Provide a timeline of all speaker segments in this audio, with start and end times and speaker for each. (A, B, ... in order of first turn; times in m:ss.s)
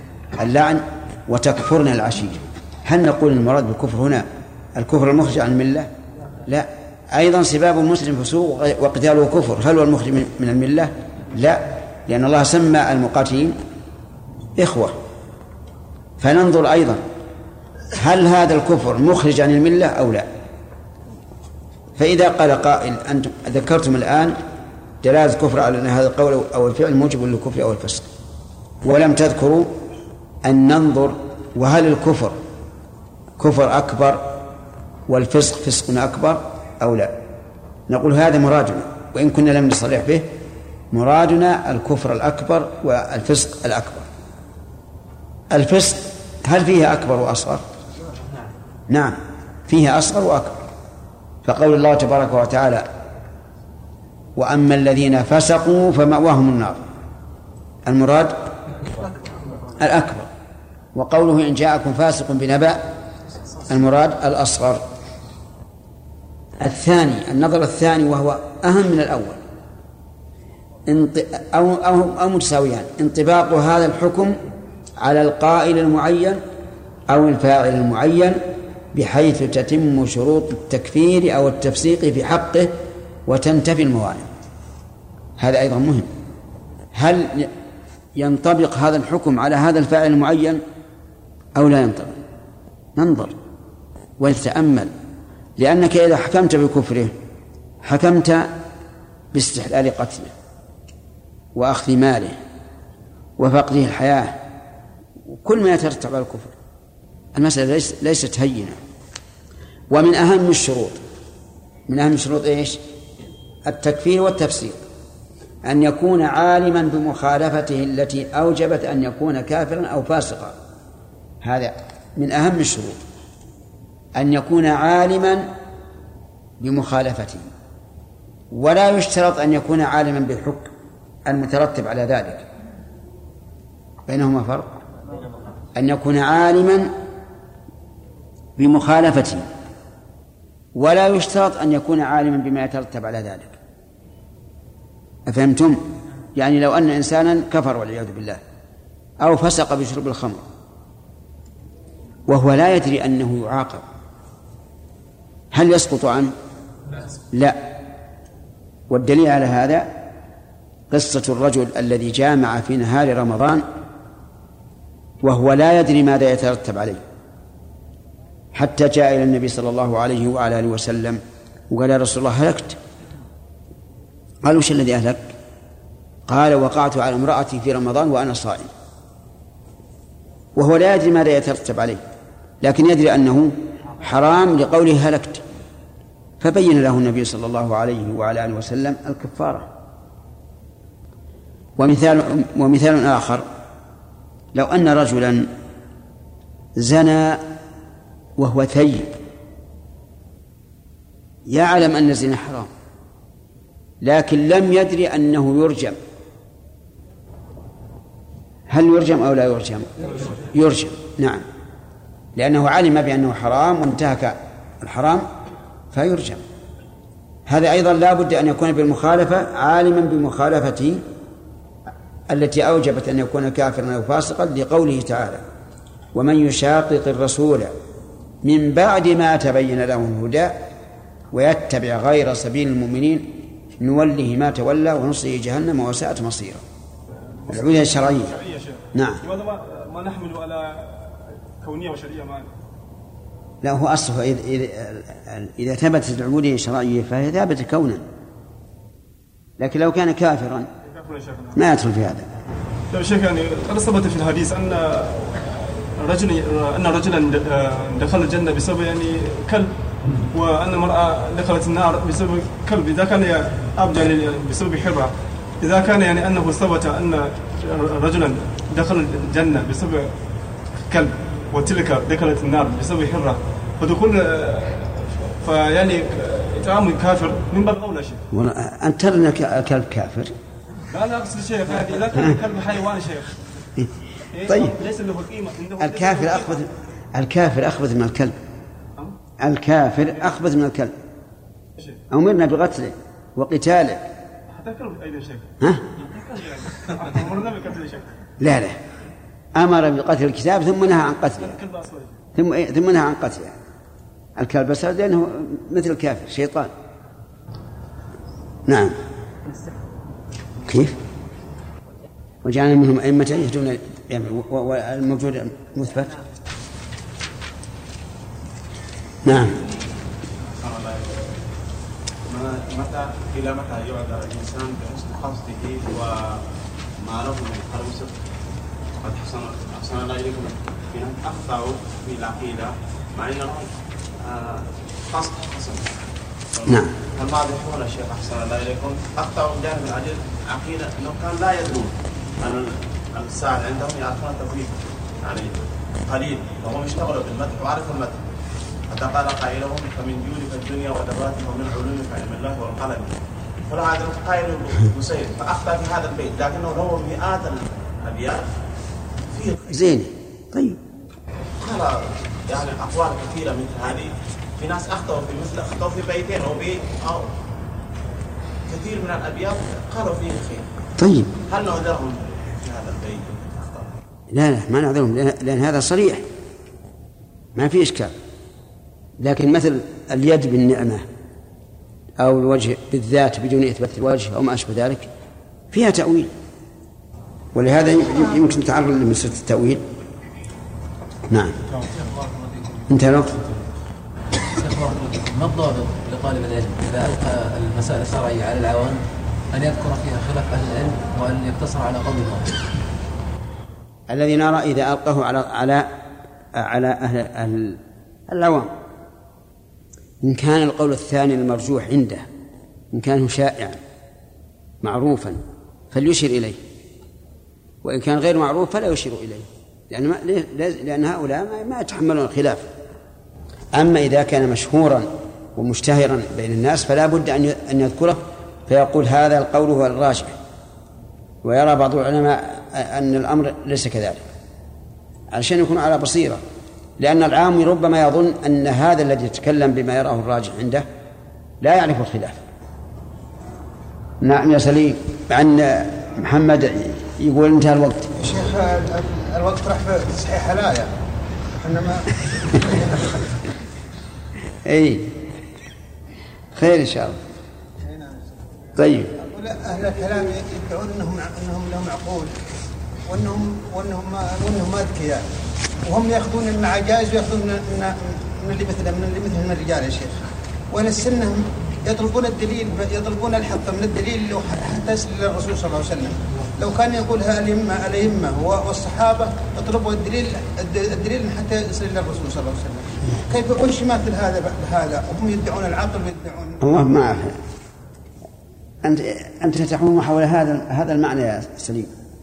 0:00.4-0:05.9 A
0:06.5-0:13.6 A
0:14.6-0:14.9 A
0:16.2-0:17.0 A
0:18.0-0:20.3 A
0:22.0-0:24.4 A
0:25.0-0:28.1 A
0:28.8-0:29.7 A
0:30.4-0:32.4 A
0:33.4-0:34.2 A
0:35.1-0:37.1 A
0:37.9-0:40.3 A
0:40.9-0:44.0 A
0:45.5-0:47.6 A
0:48.9-0:50.6 A
0:51.4-0:52.9 A
0:54.4-0:56.8 A
0:57.8-0:58.5 A
0:59.8-1:00.3 A
1:00.9-1:02.9 A
1:03.7-1:04.8 A
1:06.6-1:09.4 A
1:10.9-1:14.4 A
1:15.0-1:16.4 A
1:17.1-1:18.4 A
1:18.9-1:22.7 A
1:23.3-1:24.3 A
1:25.4-1:26.1 A
1:26.9-1:27.5 A
1:28.2-1:30.6 A
1:31.5-1:32.2 A
1:33.0-1:33.3 A
1:34.2-1:34.9 A
1:35.6-1:37.1 A
1:37.8-1:38.5 A
1:39.3-1:40.3 A
1:41.5-1:42.4 A
1:43.4-1:44.3 A
1:45.3-1:46.5 A
1:47.3-1:48.8 A
1:49.9-1:51.0 A
1:51.9-1:52.8 A
1:53.6-1:54.8 A
1:55.6-2:00.5 A
2:01.4-2:03.0 A
2:04.2-2:05.5 A
2:06.6-2:07.5 A
2:08.5-2:10.7 A
2:11.2-2:12.4 A
2:14.1-2:14.8 A
2:15.7-2:16.9 A
2:18.6-2:19.4 A
2:20.8-2:23.6 A
2:25.3-2:25.8 A
2:26.3-2:28.4 A
2:29.2-2:30.4 A
2:32.3-2:33.8 A
2:35.5-2:36.3 A
2:37.3-2:37.6 A
2:38.9-2:39.9 A
2:40.9-2:43.6 A
2:45.2-2:47.0 A
2:48.5-2:52.8 A
2:54.4-2:55.3 A
2:56.3-2:58.7 A
3:00.5-3:02.0 A
3:02.6-3:05.4 A
3:06.4-3:09.7 A
3:11.8-3:13.4 A
3:14.5-3:15.5 A
3:16.8-3:17.4 A
3:18.4-3:19.1 A
3:21.5-3:22.7 A
3:24.0-3:26.0 A
3:28.7-3:31.4 A
3:32.4-3:35.3 A
3:35.9-3:36.4 A
3:37.5-3:41.0 A
3:42.3-3:45.4 A
3:46.1-3:47.7 A
3:48.4-3:50.5 A
3:51.3-3:56.6 A
3:57.4-4:02.5 B
3:57.5-3:58.4 A
3:58.9-3:59.2 A
4:03.6-4:08.0 A
4:09.6-4:10.7 A
4:10.8-4:11.6 B
4:11.5-4:12.3 A
4:12.9-4:19.7 B
4:20.3-4:30.1 B
4:30.9-4:38.2 B
4:38.3-4:40.3 A
4:40.9-4:43.4 B
4:44.3-4:46.6 B
4:44.5-4:44.8 A
4:45.8-4:48.3 A
4:49.4-4:50.9 A
4:52.1-4:54.1 A
4:54.5-4:55.4 B
4:56.0-4:58.1 B
4:58.4-4:58.8 A
4:59.5-5:01.6 A
5:01.4-5:02.2 B
5:02.3-5:03.5 A
5:04.4-5:06.7 A
5:08.6-5:09.0 A
5:10.7-5:10.9 A
5:12.4-5:16.2 A
5:19.2-5:19.6 A
5:20.5-5:21.4 C
5:22.3-5:26.4 C
5:27.0-5:28.2 C
5:29.0-5:33.7 C
5:34.2-5:36.0 C
5:36.5-5:45.5 C
5:36.7-5:36.9 A
5:46.0-5:48.2 C
5:48.9-5:53.1 C
5:53.7-5:58.4 C
5:59.3-5:59.6 C
5:59.6-6:00.8 A
6:01.6-6:07.3 C
6:08.7-6:10.7 C
6:11.0-6:11.3 A
6:11.5-6:13.9 C
6:14.3-6:16.2 A
6:17.5-6:18.1 A
6:19.2-6:21.0 A
6:22.2-6:25.1 A
6:25.7-6:26.3 A
6:27.5-6:29.8 A
6:31.3-6:31.6 A
6:31.7-6:32.8 D
6:32.9-6:33.3 A
6:34.5-6:42.6 D
6:44.1-6:45.9 A
6:46.5-6:48.7 A
6:50.2-6:52.2 A
6:52.9-6:53.8 A
6:54.8-6:55.4 A
6:55.9-6:56.6 A
6:57.8-7:02.7 A
7:03.7-7:10.3 A
7:11.4-7:14.2 A
7:15.3-7:16.4 A
7:17.0-7:20.8 A
7:21.6-7:22.4 A
7:24.2-7:28.1 A
7:28.2-7:30.9 E
7:31.6-7:33.3 E
7:34.6-7:35.1 A
7:36.5-7:37.2 A
7:37.8-7:38.3 E
7:38.8-7:39.1 A
7:39.2-7:42.4 E
7:43.0-7:45.2 E
7:45.8-8:06.6 E
8:06.6-8:07.4 A
8:08.8-8:11.9 A